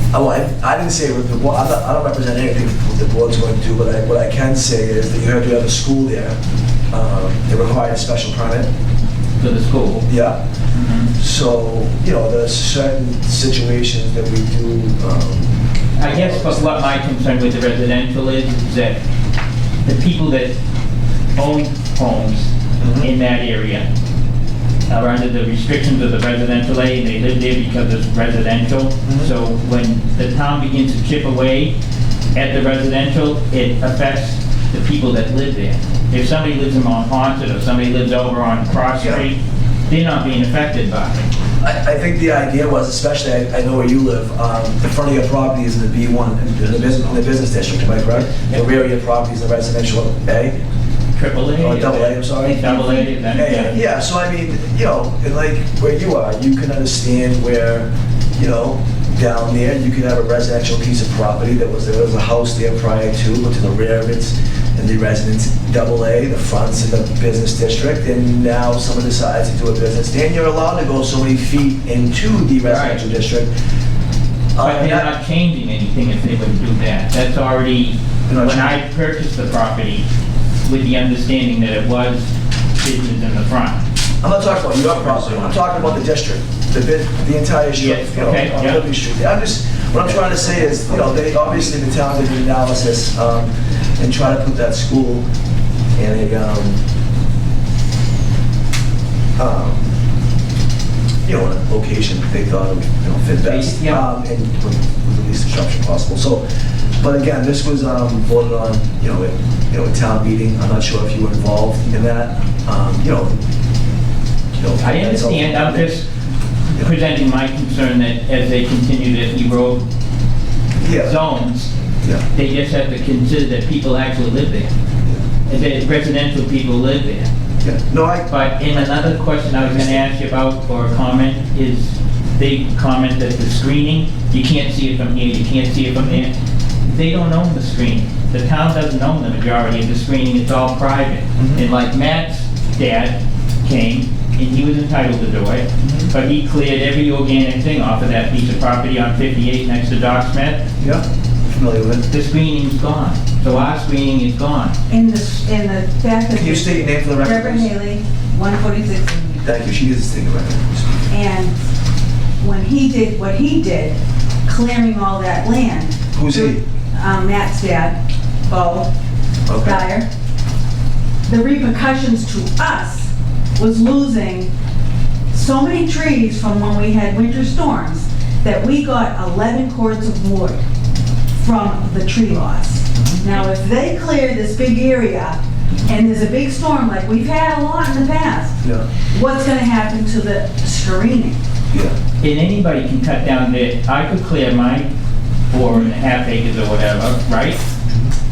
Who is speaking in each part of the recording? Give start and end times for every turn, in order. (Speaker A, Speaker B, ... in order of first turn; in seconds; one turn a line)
Speaker A: 0.1-6.4
Speaker A: 6.9-8.7
Speaker B: 9.4-10.1
Speaker A: 10.1-10.4
Speaker B: 10.7-11.1
Speaker A: 11.2-16.9
Speaker B: 16.0-19.0
Speaker B: 19.9-20.6
Speaker B: 21.4-23.9
Speaker A: 22.8-23.1
Speaker B: 24.9-31.8
Speaker A: 29.1-29.3
Speaker B: 32.4-41.2
Speaker A: 39.0-39.3
Speaker A: 41.6-50.5
Speaker B: 51.2-53.8
Speaker A: 51.6-52.7
Speaker C: 52.6-53.7
Speaker A: 53.3-73.5
Speaker B: 72.7-73.0
Speaker A: 74.5-75.1
Speaker B: 74.6-80.0
Speaker A: 78.3-78.8
Speaker B: 80.7-83.8
Speaker A: 84.2-95.2
Speaker B: 87.8-88.8
Speaker A: 96.0-96.8
Speaker A: 99.4-99.9
Speaker A: 101.2-106.4
Speaker B: 103.4-104.1
Speaker A: 107.0-113.4
Speaker A: 114.5-116.0
Speaker B: 114.8-116.1
Speaker B: 116.8-119.8
Speaker A: 120.8-121.2
Speaker B: 120.8-121.7
Speaker B: 122.3-124.7
Speaker B: 125.5-127.3
Speaker A: 127.6-130.1
Speaker B: 128.3-150.7
Speaker A: 141.4-141.7
Speaker A: 145.8-146.1
Speaker A: 150.8-152.1
Speaker B: 152.1-154.8
Speaker C: 154.9-159.4
Speaker A: 156.3-157.7
Speaker A: 159.4-161.1
Speaker C: 161.1-161.6
Speaker C: 162.4-168.9
Speaker A: 166.1-166.6
Speaker A: 169.5-169.9
Speaker C: 169.6-170.1
Speaker C: 171.3-174.5
Speaker C: 175.3-180.6
Speaker C: 181.4-188.6
Speaker A: 182.9-183.2
Speaker A: 188.6-188.9
Speaker C: 189.1-191.4
Speaker A: 191.7-191.9
Speaker B: 192.2-194.9
Speaker B: 195.5-197.6
Speaker A: 197.8-198.1